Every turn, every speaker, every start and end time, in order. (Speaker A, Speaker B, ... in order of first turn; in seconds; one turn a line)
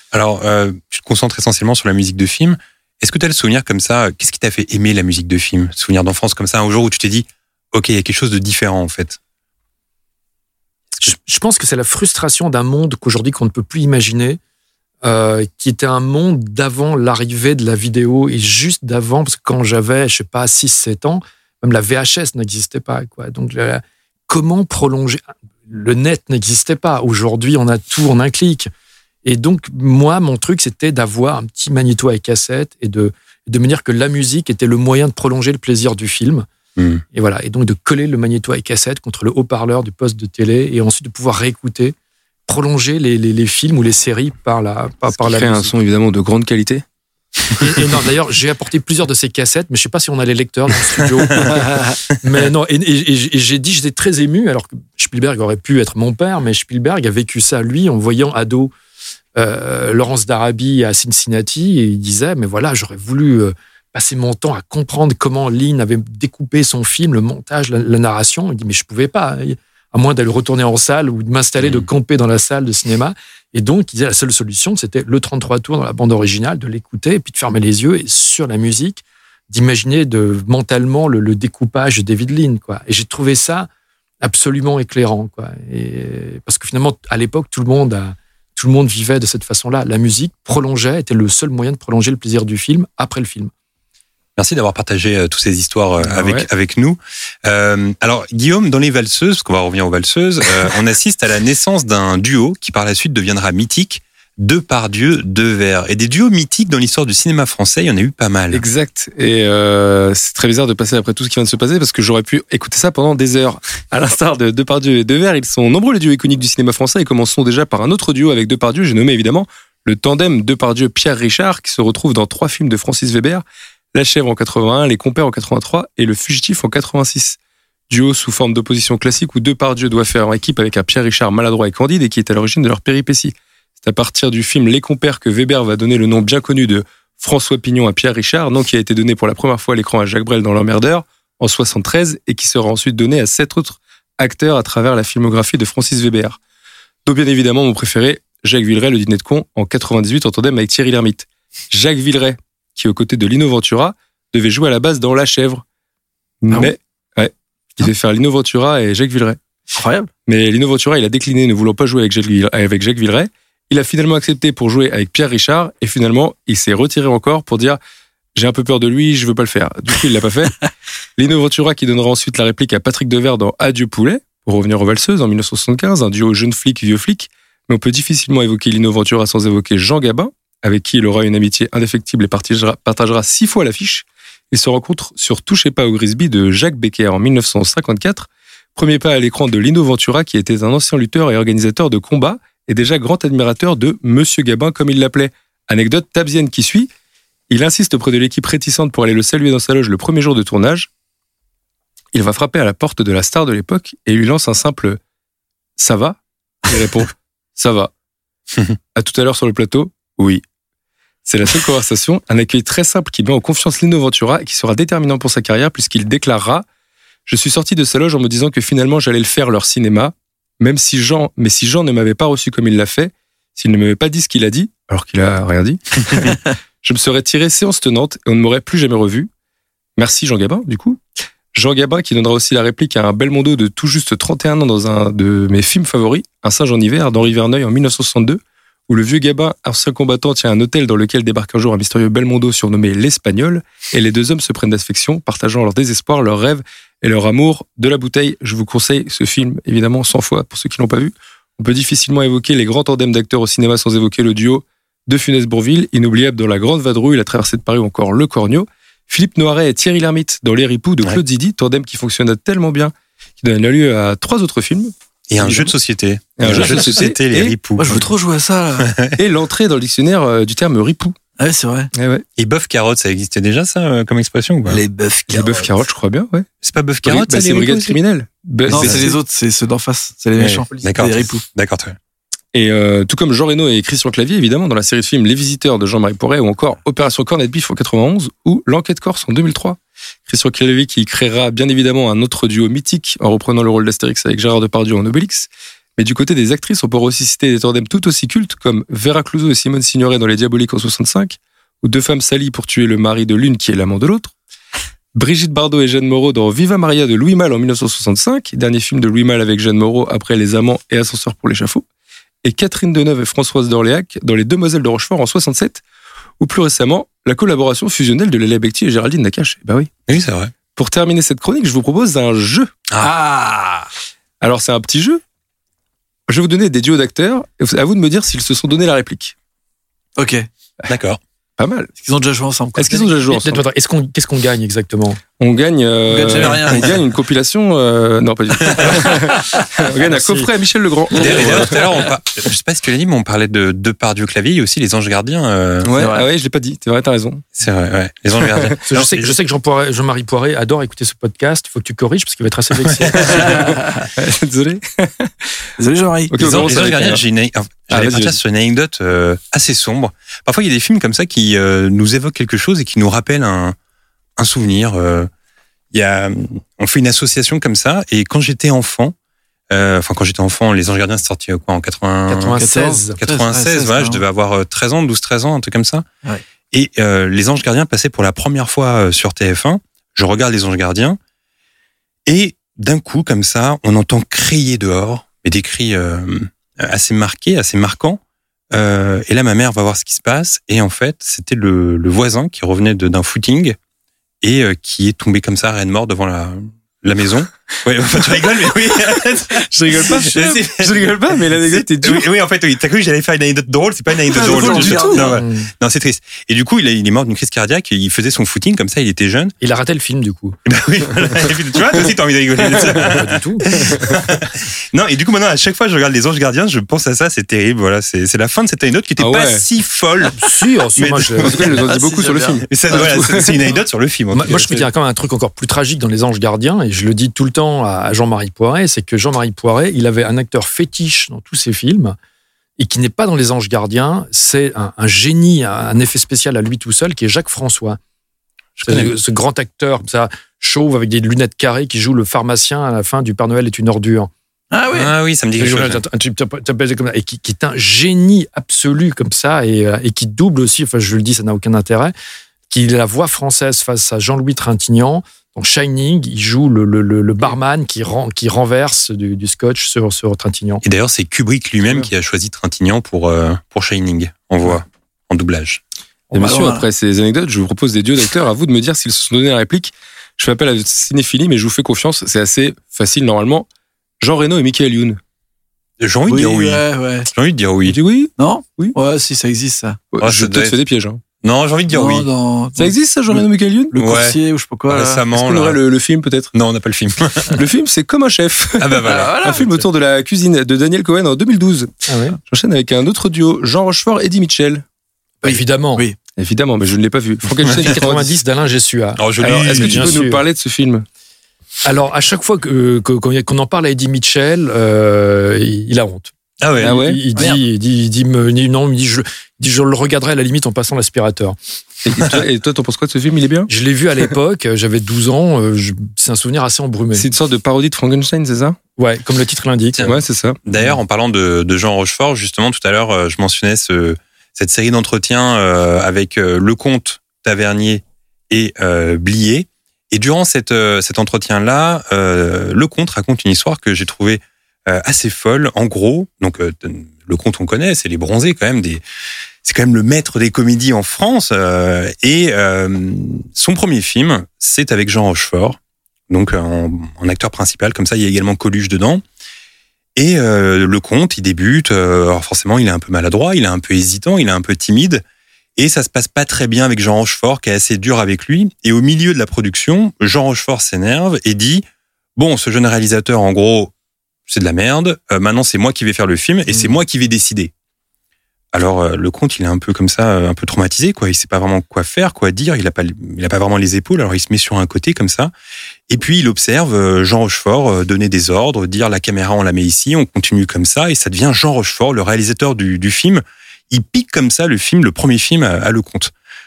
Speaker A: 0.1-9.2
Speaker B: 10.9-14.4
Speaker B: 15.0-28.7
Speaker B: 29.2-36.5
Speaker A: 36.8-37.0
Speaker B: 37.1-42.0
Speaker B: 42.5-45.7
Speaker C: 45.1-46.8
Speaker B: 47.6-58.7
Speaker B: 59.4-83.7
Speaker A: 71.6-71.9
Speaker B: 84.2-93.5
Speaker A: 94.4-108.6
Speaker C: 96.0-96.5
Speaker C: 108.5-127.4
Speaker C: 127.9-146.4
Speaker C: 147.1-155.6
Speaker C: 156.4-159.4
Speaker D: 159.8-160.1
Speaker C: 160.3-167.8
Speaker C: 168.3-196.9
Speaker C: 197.5-200.9
Speaker C: 202.1-205.0
Speaker C: 205.8-207.9
Speaker C: 208.9-210.4
Speaker C: 211.3-216.7
Speaker C: 217.3-229.3
Speaker C: 230.0-231.0
Speaker C: 231.5-265.7
Speaker A: 265.3-268.1
Speaker C: 266.4-268.0
Speaker D: 267.8-268.9
Speaker A: 268.8-269.2
Speaker C: 269.2-271.2
Speaker D: 271.4-271.9
Speaker C: 271.9-272.2
Speaker A: 272.4-274.8
Speaker D: 274.7-275.7
Speaker C: 275.3-276.5
Speaker A: 276.6-278.0
Speaker C: 277.1-279.1
Speaker A: 278.7-279.1
Speaker D: 278.7-281.4
Speaker A: 280.4-282.0
Speaker C: 282.5-304.3
Speaker C: 305.1-311.8
Speaker C: 312.4-315.8
Speaker C: 316.4-319.9
Speaker A: 320.1-320.5
Speaker C: 320.8-322.7
Speaker D: 323.0-323.9
Speaker C: 324.4-325.2
Speaker C: 326.3-329.3
Speaker D: 330.2-330.5
Speaker A: 330.9-331.2
Speaker C: 331.6-331.9
Speaker D: 332.0-333.2
Speaker C: 332.8-333.6
Speaker B: 333.3-335.2
Speaker C: 335.4-341.8
Speaker D: 336.1-337.0
Speaker B: 340.0-340.5
Speaker A: 341.1-345.9
Speaker C: 345.8-347.4
Speaker D: 346.0-346.3
Speaker A: 347.6-349.4
Speaker C: 348.5-348.8
Speaker B: 348.9-353.8
Speaker A: 352.9-353.5
Speaker D: 353.6-354.0
Speaker C: 354.1-355.3
Speaker D: 355.8-357.1
Speaker C: 356.3-357.2
Speaker A: 356.4-363.8
Speaker C: 357.9-358.4
Speaker A: 364.4-365.3
Speaker A: 365.9-369.1
Speaker A: 369.7-372.6
Speaker B: 372.3-373.2
Speaker D: 372.6-374.2
Speaker A: 373.2-376.1
Speaker A: 376.7-381.2
Speaker A: 382.3-388.2
Speaker A: 388.7-393.8
Speaker A: 394.4-409.6
Speaker D: 399.8-400.6
Speaker C: 400.3-402.3
Speaker D: 404.3-405.4
Speaker C: 404.5-405.1
Speaker B: 405.2-405.7
Speaker B: 409.6-410.6
Speaker A: 410.7-420.4
Speaker B: 412.9-413.6
Speaker C: 419.2-419.6
Speaker B: 420.4-421.7
Speaker A: 421.0-421.8
Speaker C: 421.4-423.5
Speaker D: 421.7-423.1
Speaker A: 422.7-424.8
Speaker B: 424.3-432.2
Speaker B: 432.8-438.0
Speaker A: 438.8-439.1
Speaker B: 438.9-444.3
Speaker D: 444.7-445.1
Speaker A: 444.9-446.0
Speaker B: 445.6-452.1
Speaker B: 452.7-460.8
Speaker A: 460.8-465.8
Speaker C: 466.3-473.7
Speaker D: 466.3-466.9
Speaker C: 474.2-475.2
Speaker A: 476.0-478.0
Speaker D: 476.3-477.3
Speaker C: 477.9-478.9
Speaker D: 478.4-480.1
Speaker C: 480.1-481.2
Speaker A: 480.2-480.8
Speaker A: 481.4-482.3
Speaker D: 481.9-482.9
Speaker C: 482.8-483.9
Speaker D: 483.9-485.3
Speaker A: 483.9-484.4
Speaker A: 484.9-485.8
Speaker C: 485.3-486.5
Speaker A: 486.5-487.6
Speaker C: 487.6-494.8
Speaker A: 488.8-489.9
Speaker D: 489.1-489.7
Speaker B: 492.1-492.4
Speaker B: 495.4-496.1
Speaker D: 495.4-496.2
Speaker C: 496.4-498.4
Speaker A: 497.6-497.9
Speaker B: 497.7-500.4
Speaker A: 499.2-500.2
Speaker C: 499.4-501.1
Speaker B: 501.8-511.6
Speaker A: 506.6-507.0
Speaker C: 506.8-507.2
Speaker C: 512.0-513.7
Speaker B: 513.7-517.3
Speaker C: 517.1-518.8
Speaker B: 519.0-520.1
Speaker A: 519.9-539.0
Speaker C: 520.0-520.6
Speaker A: 539.6-545.8
Speaker A: 546.3-549.2
Speaker A: 550.2-555.2
Speaker A: 555.8-561.8
Speaker A: 562.4-563.9
Speaker A: 564.5-567.7
Speaker A: 568.7-575.5
Speaker A: 576.1-586.3